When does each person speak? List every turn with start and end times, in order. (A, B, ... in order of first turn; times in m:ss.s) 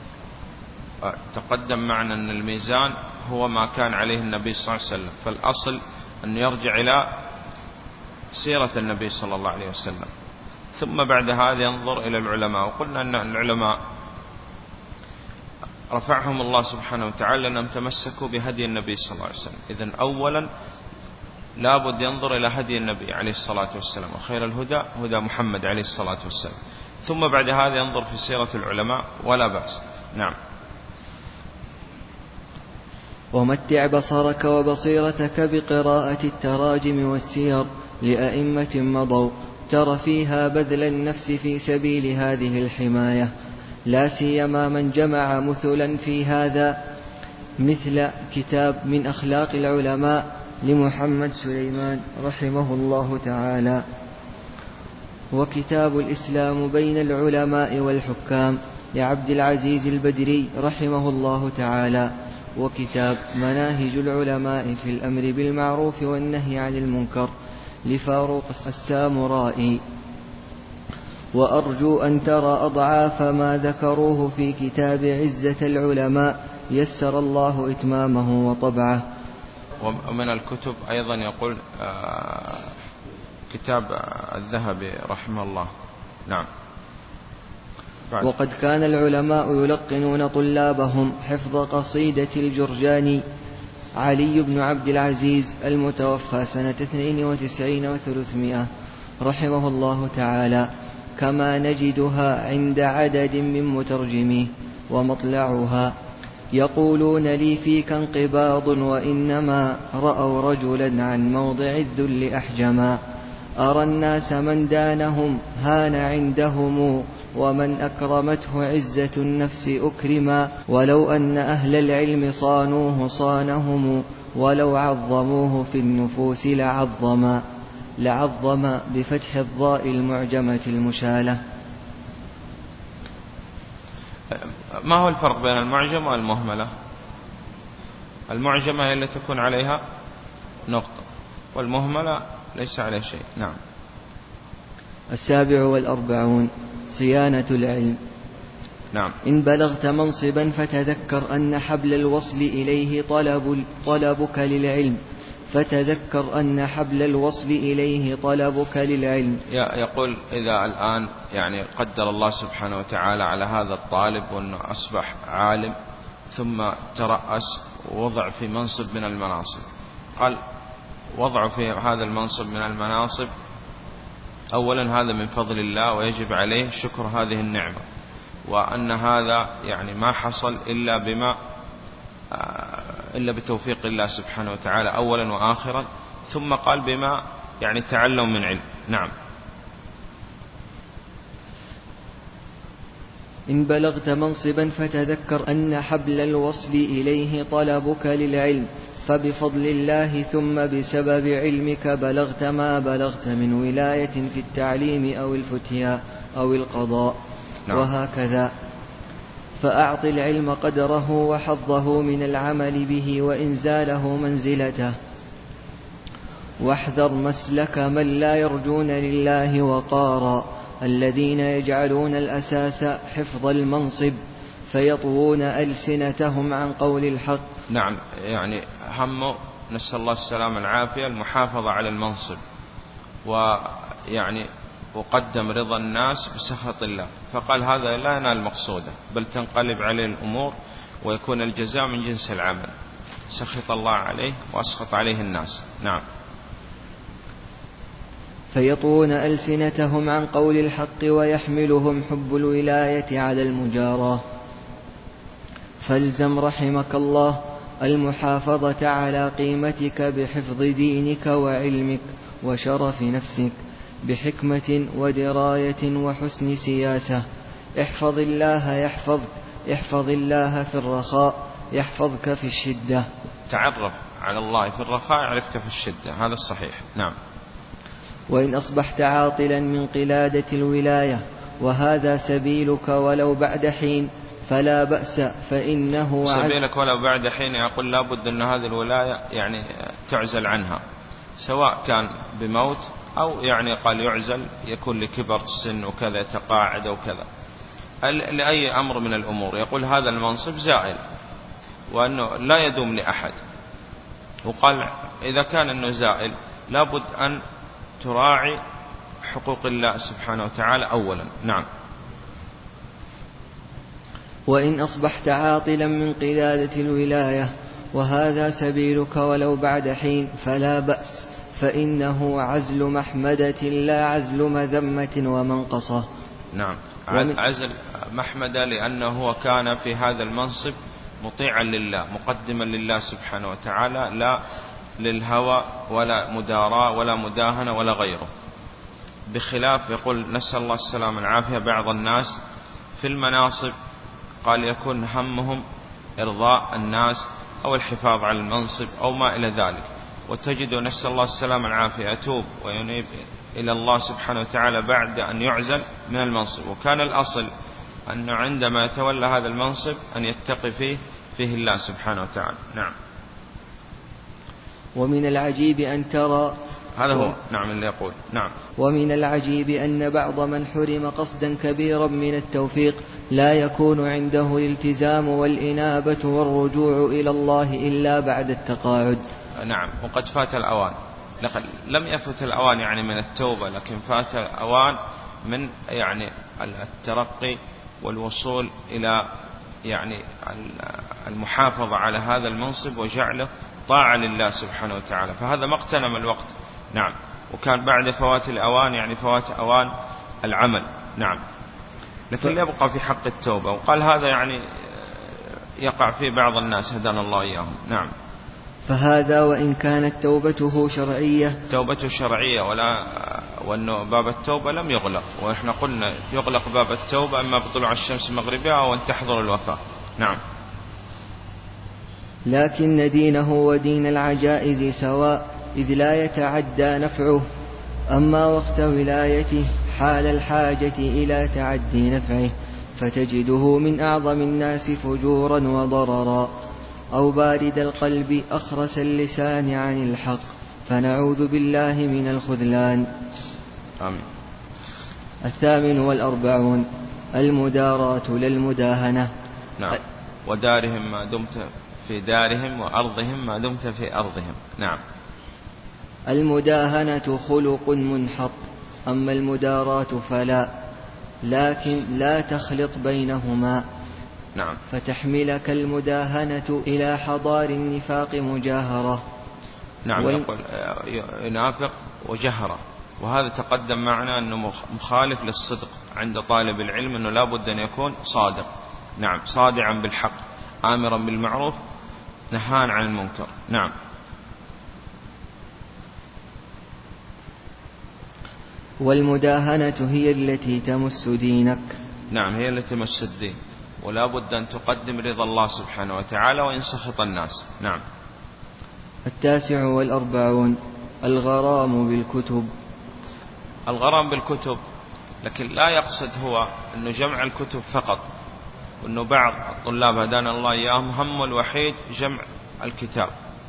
0:01.0-0:07.1 A
0:08.3-0:10.1 A
0:10.7-0:13.8 A
0:15.9-0:20.5 A
0:21.6-0:30.3 A
0:33.3-0:43.3 B
0:43.9-0:46.8 B
0:47.6-0:53.8 B
0:55.3-1:07.3 B
1:07.9-1:09.8 B
1:11.3-1:19.0 B
1:19.8-1:22.7 A
1:23.5-1:25.7 A
1:28.2-1:33.2 B
1:34.0-1:38.7 B
1:39.2-1:45.9 B
1:46.5-1:53.0 B
1:53.6-2:07.4 B
2:08.0-2:11.4 B
2:14.3-2:16.7 A
2:18.3-2:19.8 A
2:20.7-2:23.6 A
2:25.1-2:28.0 B
2:29.2-2:35.0 B
2:35.5-2:39.4 B
2:39.5-2:45.7 A
2:46.3-2:50.4 A
2:51.1-2:53.3 A
2:54.5-2:57.8 A
2:58.4-3:01.4 A
3:02.3-3:09.1 A
3:13.5-3:27.2 B
3:27.7-3:28.5 B
3:29.6-3:34.9 B
3:36.6-3:44.2 B
3:44.7-3:47.4 B
3:47.7-3:52.4 A
3:53.2-4:02.7 A
4:03.3-4:06.0 A
4:08.5-4:14.2 B
4:15.8-4:23.5 B
4:24.0-4:27.2 B
4:27.8-4:33.0 B
4:33.5-4:37.1 A
4:38.3-4:46.6 B
4:46.2-4:50.8 A
4:51.4-4:57.2 A
4:58.0-5:01.0 A
5:01.9-5:03.4 A
5:04.4-5:07.4 A
5:08.0-5:08.6 A
5:09.2-5:11.6 A
5:14.5-5:26.1 B
5:26.5-5:34.4 A
5:27.1-5:27.4 B
5:35.0-5:38.3 A
5:39.3-5:42.4 A
5:43.0-5:43.7 A
5:44.4-5:45.6 A
5:46.2-5:57.5 A
5:58.1-6:02.9 A
6:05.0-6:06.6 B
6:07.0-6:08.5 A
6:08.8-6:19.2 B
6:19.6-6:29.2 A
6:29.8-6:39.9 A
6:40.4-6:41.4 A
6:42.3-6:48.1 A
6:48.9-6:51.6 B
6:51.7-7:00.4 A
7:02.5-7:07.4 B
7:08.1-7:16.5 B
7:17.1-7:23.1 B
7:24.0-7:24.2 A
7:25.4-7:29.3 B
7:29.8-7:35.0 A
7:36.3-7:40.7 B
7:41.4-7:43.8 B
7:44.9-7:49.2 B
7:50.0-8:01.8 A
7:50.2-7:50.4 B
8:02.5-8:03.9 A
8:09.0-8:11.9 B
8:12.3-8:18.0 A
8:19.3-8:22.7 B
8:23.9-8:24.8 A
8:25.4-8:28.2 A
8:29.0-8:33.3 A